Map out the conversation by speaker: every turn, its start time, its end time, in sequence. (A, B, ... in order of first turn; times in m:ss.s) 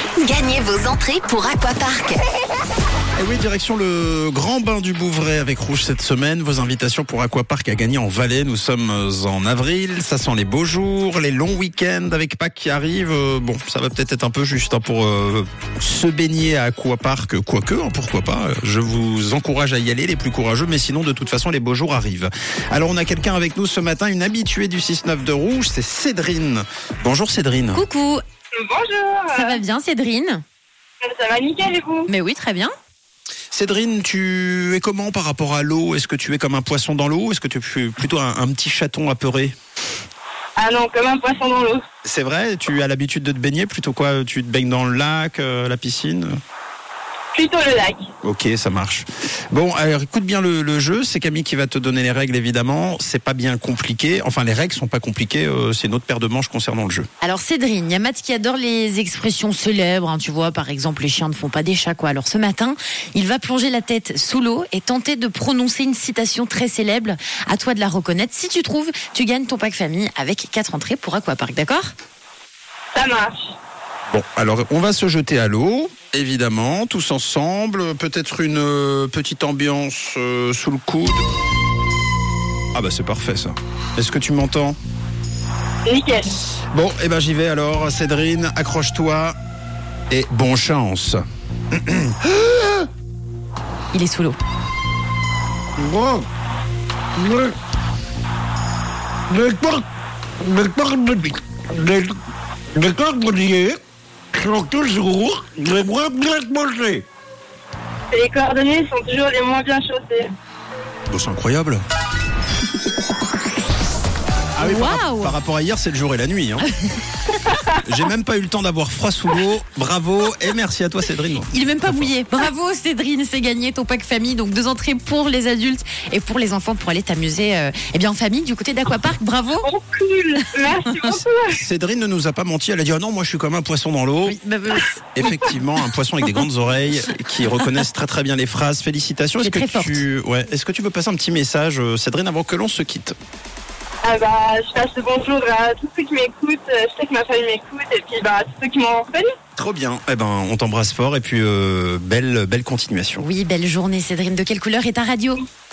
0:00.1-0:02.2 A
0:03.2-0:27.8 B
0:27.7-0:28.2 C
0:28.6-0:29.6 D
0:29.3-0:30.4 C
0:31.0-0:32.1 D
0:32.1-0:32.7 C
0:33.5-0:39.5 B
0:40.6-0:41.8 D
0:42.0-0:46.4 B
0:47.3-0:48.1 D
0:48.2-0:57.1 B
0:57.2-1:11.9 C
1:12.9-1:13.6 D
1:14.1-1:21.2 B
1:22.7-1:24.8 B
1:25.9-1:26.3 D
1:26.7-1:29.4 B
1:30.1-1:31.2 B
1:31.7-1:32.2 B
1:33.9-1:34.4 C
1:35.8-1:36.3 E
1:37.2-1:37.6 E
1:39.3-1:39.8 E
1:40.4-1:42.2 E
1:42.7-1:43.8 E
1:44.3-1:47.0 E
1:48.1-1:50.3 D
1:51.1-1:51.8 B
1:54.6-1:56.7 B
1:54.6-1:55.4 C
1:56.6-1:57.0 C
1:57.8-2:02.1 B
2:01.5-2:09.7 C
2:09.7-2:11.6 D
2:10.9-2:11.2 C
2:11.5-2:14.4 B
2:14.2-2:15.0 C
2:15.2-2:23.2 B
2:19.4-2:20.0 C
2:24.0-2:29.3 D
2:29.6-2:33.2 B
2:33.2-2:35.4 C